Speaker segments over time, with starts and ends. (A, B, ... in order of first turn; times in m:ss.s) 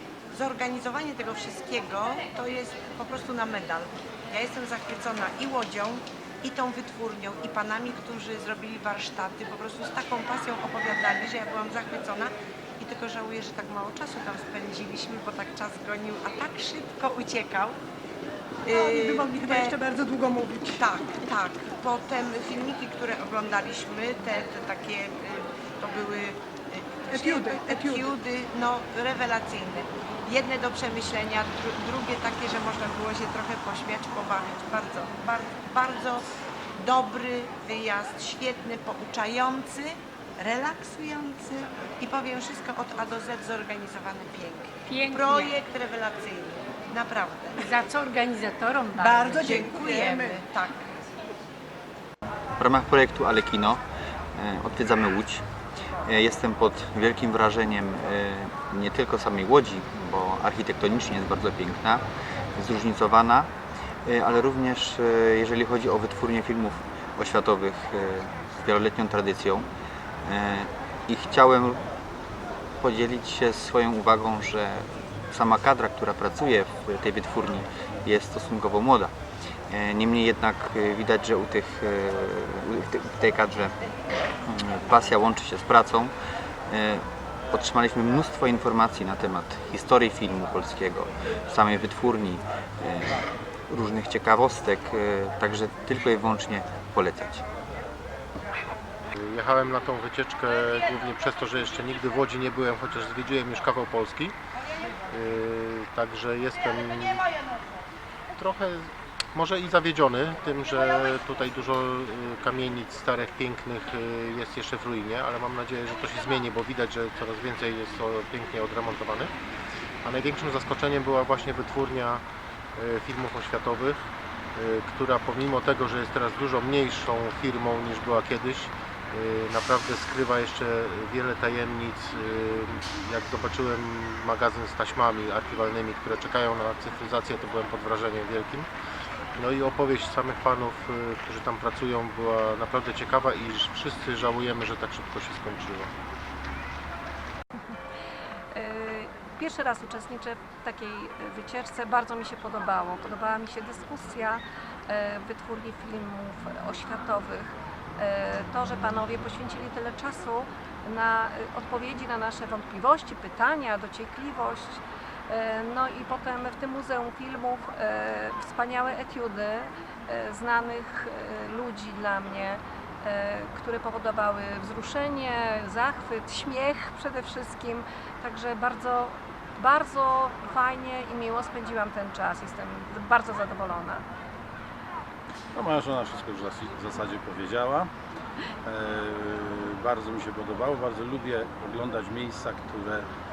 0:00.3-0:17.8 A
0:18.7-0:19.8 A
0:18.8-0:20.7 B
0:20.7-0:36.2 A
0:27.2-0:28.0 B
0:36.8-0:47.6 A
0:44.9-0:45.5 C
0:47.6-0:49.5 C
0:49.1-0:50.8 A
0:49.6-0:50.3 B
0:52.6-0:53.8 D
0:54.3-0:55.4 D
0:56.0-1:03.5 D
1:04.0-1:09.7 D
1:10.2-1:11.8 D
1:12.8-1:19.1 D
1:19.7-1:23.7 D
1:24.4-1:26.1 D
1:26.7-1:37.4 D
1:39.2-1:44.3 E
1:45.1-1:47.2 E
1:48.4-1:59.3 E
2:00.0-2:02.2 E
2:02.8-2:04.0 E
2:04.6-2:18.7 E
2:19.4-2:25.9 E
2:28.5-3:04.0 F
3:05.5-3:07.9 G
3:08.6-3:13.1 G